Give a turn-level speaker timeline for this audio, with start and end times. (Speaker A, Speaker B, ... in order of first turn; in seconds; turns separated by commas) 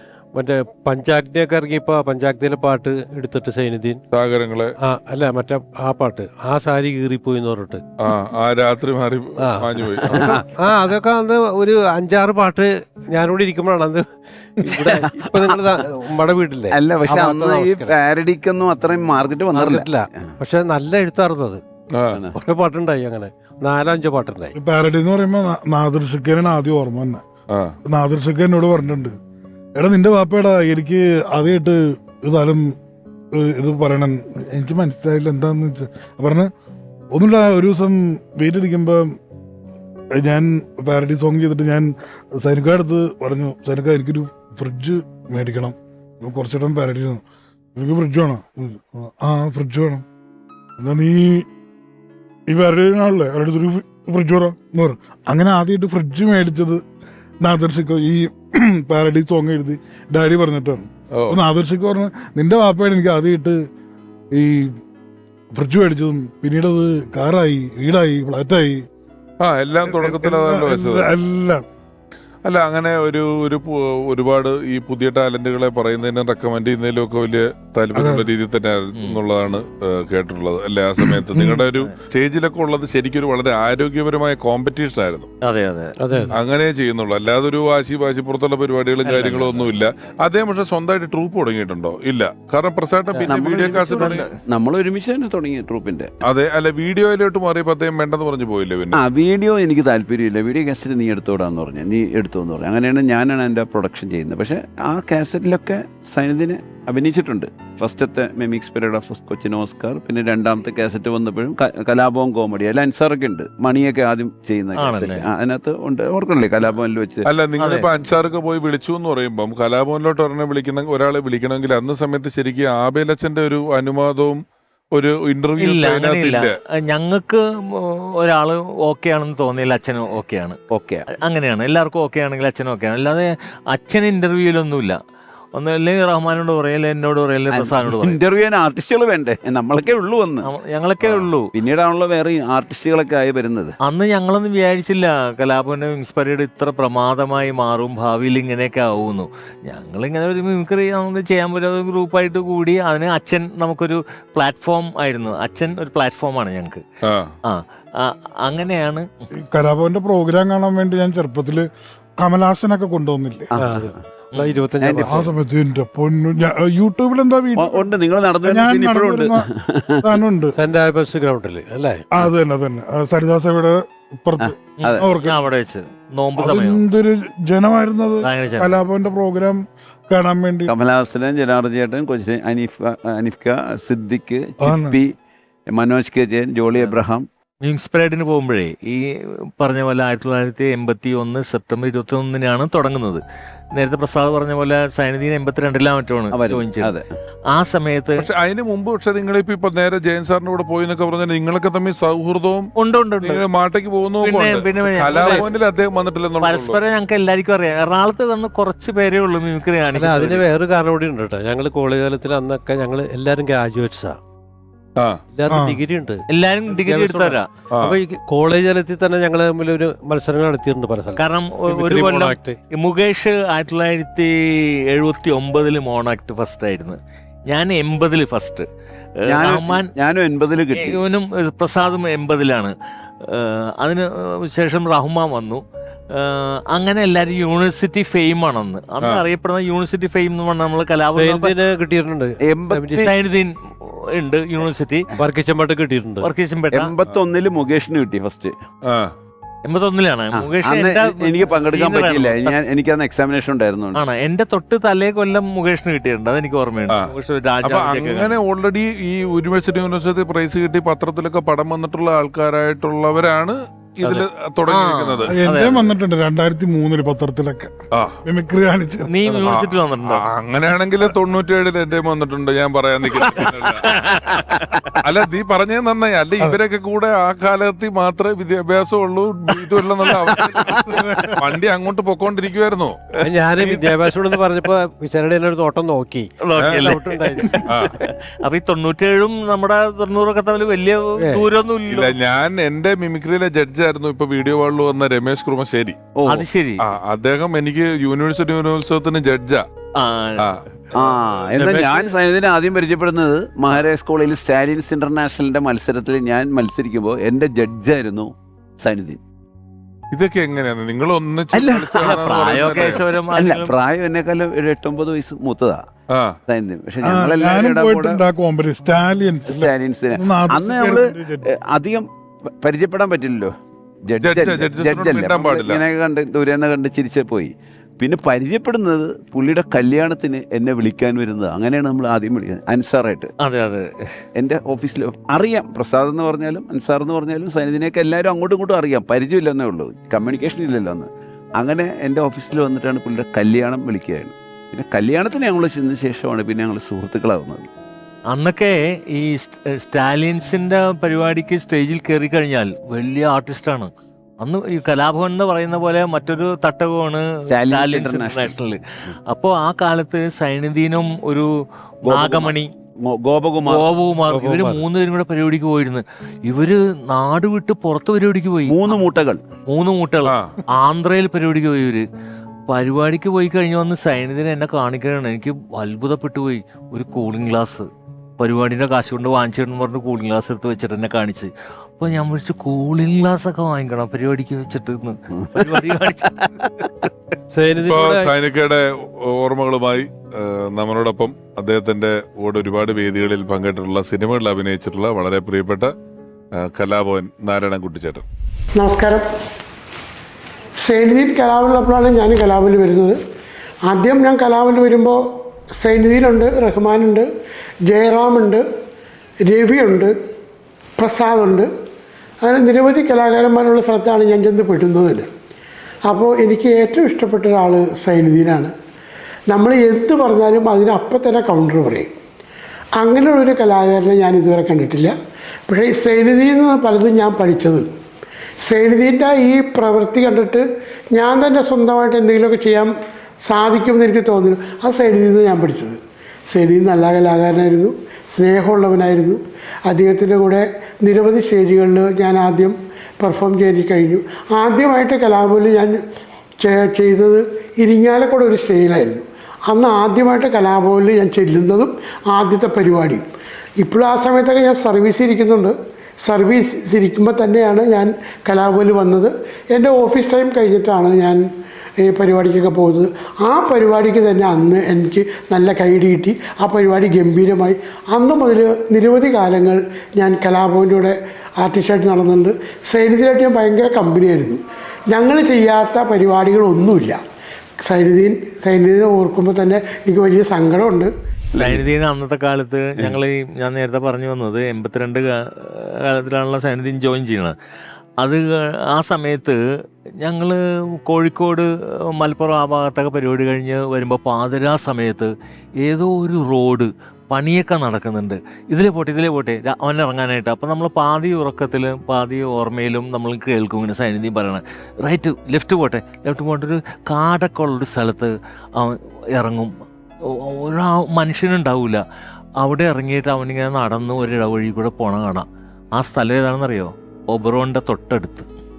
Speaker A: 0.3-4.0, Speaker B: 4.1-4.7, Speaker A: 4.8-7.8, Speaker B: 8.0-10.4, Speaker A: 9.4-17.9, Speaker C: 10.1-10.4, Speaker C: 14.7-15.8, Speaker C: 16.7-20.3, Speaker A: 19.6-21.6, Speaker B: 21.9-22.2, Speaker C: 22.1-22.4, Speaker A: 22.4-24.5, Speaker D: 24.5-27.2, Speaker B: 27.5-27.8, Speaker D: 27.9-29.2, Speaker D: 29.8-32.8, Speaker D: 33.3-36.5, Speaker D: 37.1-39.1, Speaker D: 40.1-47.2, Speaker D: 47.7-50.0, Speaker D: 50.8-51.5, Speaker D: 52.5-56.8, Speaker D: 57.4-63.6, Speaker B: 61.1-61.4, Speaker D: 64.3-64.7, Speaker D: 65.5-68.8, Speaker B: 69.4-71.1, Speaker D: 69.9-71.6, Speaker B: 72.4-85.3, Speaker D: 77.9-78.3, Speaker E: 85.4-86.3, Speaker A: 86.0-86.3, Speaker B: 86.3-94.3, Speaker E: 89.0-89.8, Speaker E: 93.1-94.3, Speaker C: 93.3-96.1, Speaker B: 96.2-99.0, Speaker C: 98.9-117.2, Speaker E: 114.8-115.3, Speaker B: 117.2-124.4, Speaker E: 117.6-117.8, Speaker B: 125.0-126.5, Speaker E: 125.6-130.6, Speaker C: 130.7-131.1, Speaker E: 131.1-135.0, Speaker E: 135.5-138.2, Speaker C: 137.5-140.5, Speaker E: 140.4-141.5, Speaker C: 141.5-143.8, Speaker E: 143.8-156.8, Speaker B: 157.0-157.3, Speaker E: 157.4-159.1, Speaker D: 159.5-161.7, Speaker D: 162.2-163.5, Speaker C: 163.5-164.0, Speaker A: 163.6-165.3, Speaker E: 164.4-164.6, Speaker C: 164.8-165.3, Speaker D: 165.1-167.9, Speaker C: 167.6-170.2, Speaker D: 168.4-169.5, Speaker D: 170.0-170.5, Speaker A: 170.5-172.0, Speaker D: 172.1-175.3, Speaker C: 174.4-175.1, Speaker E: 174.8-176.8, Speaker D: 176.4-180.7, Speaker E: 178.2-178.8, Speaker C: 180.7-185.1, Speaker D: 184.6-185.0, Speaker C: 185.7-187.2, Speaker E: 187.6-193.2, Speaker E: 193.8-196.9, Speaker C: 196.3-197.1, Speaker E: 197.5-198.2, Speaker B: 198.2-202.7, Speaker E: 202.8-203.4, Speaker B: 203.2-206.8, Speaker E: 204.2-205.5, Speaker A: 205.1-205.4, Speaker E: 206.4-210.4, Speaker A: 209.9-214.2, Speaker B: 215.0-215.2, Speaker A: 215.3-222.6, Speaker D: 215.5-215.8, Speaker E: 216.3-217.5, Speaker B: 217.7-218.0, Speaker E: 221.2-227.0, Speaker E: 227.5-228.7, Speaker C: 229.3-231.0, Speaker E: 229.3-229.9, Speaker E: 230.8-241.5, Speaker A: 241.2-243.1, Speaker C: 242.4-243.1, Speaker E: 243.0-245.1, Speaker A: 245.2-246.3, Speaker E: 246.2-246.9, Speaker C: 246.7-248.5, Speaker B: 248.8-249.1, Speaker E: 249.7-252.6, Speaker C: 250.4-254.0, Speaker E: 253.9-258.4, Speaker B: 256.9-265.3, Speaker E: 264.0-265.9, Speaker D: 265.4-269.1, Speaker B: 267.9-268.2, Speaker E: 269.1-270.2, Speaker B: 269.4-274.0, Speaker E: 273.2-274.8, Speaker B: 275.0-284.4, Speaker E: 280.4-281.3, Speaker D: 280.8-281.4, Speaker A: 283.2-287.9, Speaker E: 286.4-287.9, Speaker B: 286.6-286.9, Speaker B: 287.6-287.9, Speaker E: 288.4-292.1, Speaker A: 291.2-291.5, Speaker B: 291.9-296.0, Speaker C: 296.1-296.4, Speaker E: 296.3-296.8, Speaker B: 296.8-299.6, Speaker E: 300.0-300.4, Speaker C: 300.9-308.3, Speaker A: 301.6-302.0, Speaker C: 308.8-309.2, Speaker B: 310.1-313.0, Speaker C: 311.5-312.2, Speaker E: 312.0-313.7, Speaker C: 313.3-315.8, Speaker B: 316.1-316.4, Speaker C: 316.5-318.2, Speaker D: 317.0-321.4, Speaker C: 319.5-322.1, Speaker C: 322.6-323.5, Speaker C: 324.0-333.3, Speaker B: 324.2-325.8, Speaker E: 333.4-333.9, Speaker C: 334.4-347.7, Speaker E: 348.3-353.9, Speaker E: 354.4-361.5, Speaker C: 357.5-358.5, Speaker E: 362.0-362.7, Speaker C: 362.1-362.5, Speaker C: 363.1-363.8, Speaker E: 363.7-369.0, Speaker A: 364.3-364.8, Speaker C: 368.7-369.4, Speaker E: 369.7-372.1, Speaker B: 370.3-370.6, Speaker E: 372.7-377.9, Speaker E: 378.4-386.7, Speaker C: 385.4-385.7, Speaker A: 387.5-388.3, Speaker B: 387.8-395.9, Speaker B: 396.6-398.2, Speaker F: 398.8-399.2, Speaker F: 400.8-403.2, Speaker F: 403.9-405.2, Speaker F: 405.8-407.3, Speaker F: 407.9-408.6, Speaker F: 409.4-410.1, Speaker F: 411.0-411.7, Speaker F: 412.4-415.3, Speaker F: 416.1-418.7, Speaker F: 419.5-422.1, Speaker F: 423.0-425.1, Speaker F: 425.7-427.9, Speaker F: 428.6-432.9, Speaker F: 433.4-436.0, Speaker F: 436.5-446.0, Speaker F: 446.6-453.2, Speaker F: 453.8-461.4, Speaker F: 462.0-477.2, Speaker F: 477.8-481.1, Speaker E: 481.5-487.5, Speaker C: 481.6-481.8, Speaker E: 488.2-489.6, Speaker E: 490.2-495.3, Speaker E: 495.8-509.7, Speaker E: 510.2-512.0, Speaker E: 512.6-515.5, Speaker E: 516.0-518.5